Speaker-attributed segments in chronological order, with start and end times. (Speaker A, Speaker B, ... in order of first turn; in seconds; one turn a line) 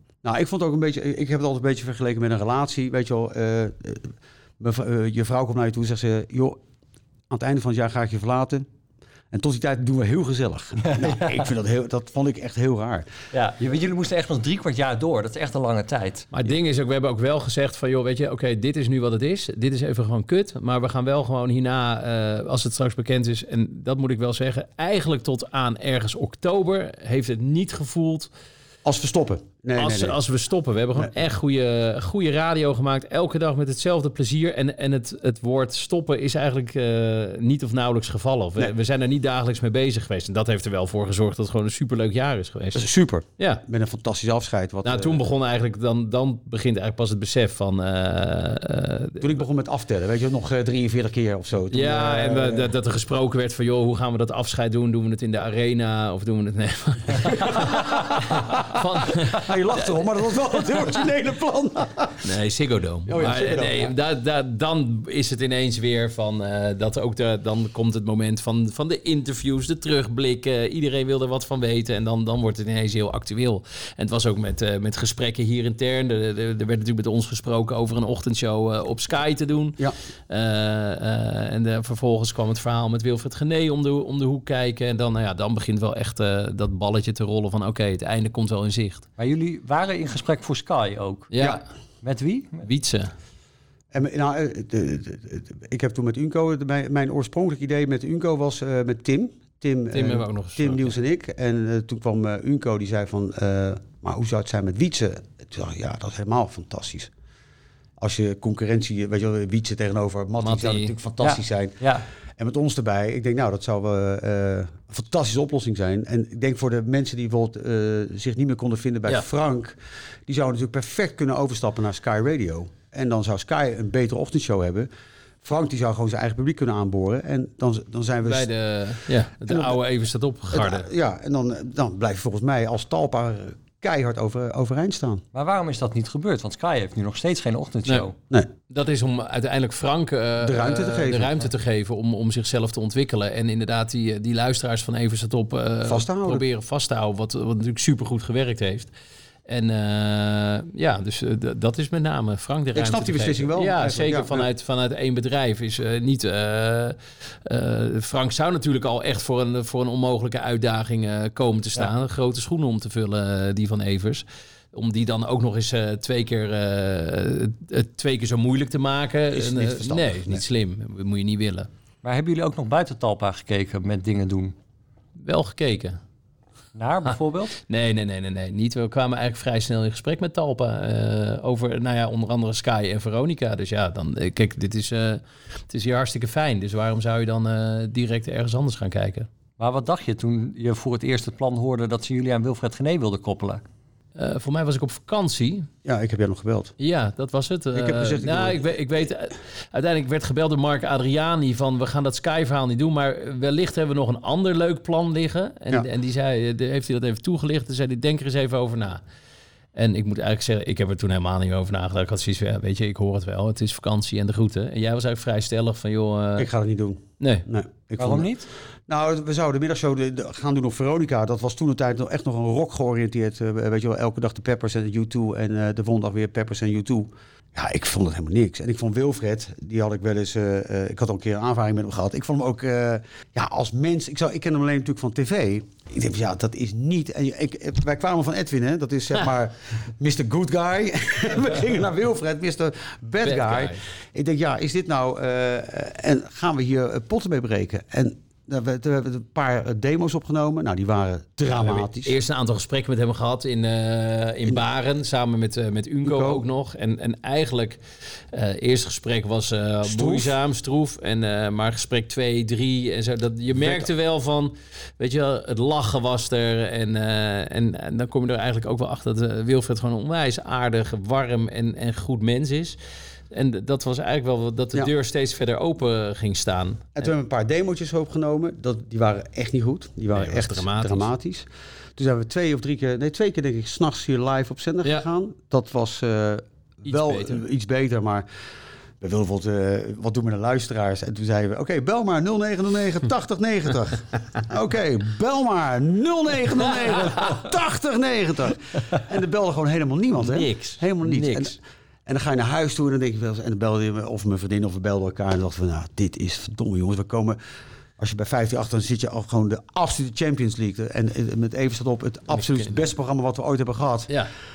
Speaker A: 0.2-6.6
Speaker A: 7.3-8.7
Speaker A: 9.3-13.1
Speaker B: 10.9-11.2
Speaker B: 13.3-16.3
Speaker C: 16.3-28.3
Speaker A: 28.8-30.2
Speaker C: 29.8-42.9
Speaker A: 42.7-45.2
Speaker C: 43.4-43.6
Speaker C: 44.8-49.4
Speaker A: 49.2-52.7
Speaker C: 51.7-59.9
Speaker A: 57.4-62.2
Speaker C: 60.5-60.9
Speaker C: 62.2-79.8
Speaker A: 63.1-63.9
Speaker C: 80.3-89.0
Speaker B: 89.2-91.3
Speaker C: 91.3-91.6
Speaker B: 92.0-92.6
Speaker C: 92.6-93.1
Speaker A: 93.9-107.1
Speaker C: 99.9-101.0
Speaker A: 108.0-111.8
Speaker C: 110.4-110.9
Speaker B: 111.2-112.0
Speaker A: 112.4-124.9
Speaker A: 125.4-128.5
Speaker C: 128.2-130.9
Speaker A: 129.4-129.8
Speaker A: 130.5-135.2
Speaker B: 135.3-138.1
Speaker C: 138.7-148.9
Speaker A: 140.4-141.5
Speaker A: 145.8-146.4
Speaker C: 149.5-171.7
Speaker A: 152.7-154.5
Speaker A: 169.3-170.4
Speaker B: 172.0-174.5
Speaker C: 175.2-176.0
Speaker B: 176.7-177.5
Speaker C: 177.1-189.3
Speaker B: 189.6-193.6
Speaker C: 194.2-195.7
Speaker A: 195.8-196.7
Speaker C: 196.8-209.0
Speaker A: 197.7-199.0
Speaker C: 209.7-216.5
Speaker A: 216.4-218.3
Speaker C: 217.2-217.4
Speaker B: 218.0-218.5
Speaker A: 218.9-252.1
Speaker C: 243.2-243.8
Speaker C: 251.5-257.8
Speaker A: 256.0-256.4
Speaker C: 258.3-272.8
Speaker A: 259.8-260.4
Speaker A: 263.6-263.9
Speaker C: 273.3-277.1
Speaker A: 276.9-288.2
Speaker C: 280.1-281.1
Speaker C: 286.9-287.4
Speaker A: 289.0-307.4
Speaker C: 300.2-301.5
Speaker A: 308.0-314.1
Speaker C: 312.3-312.9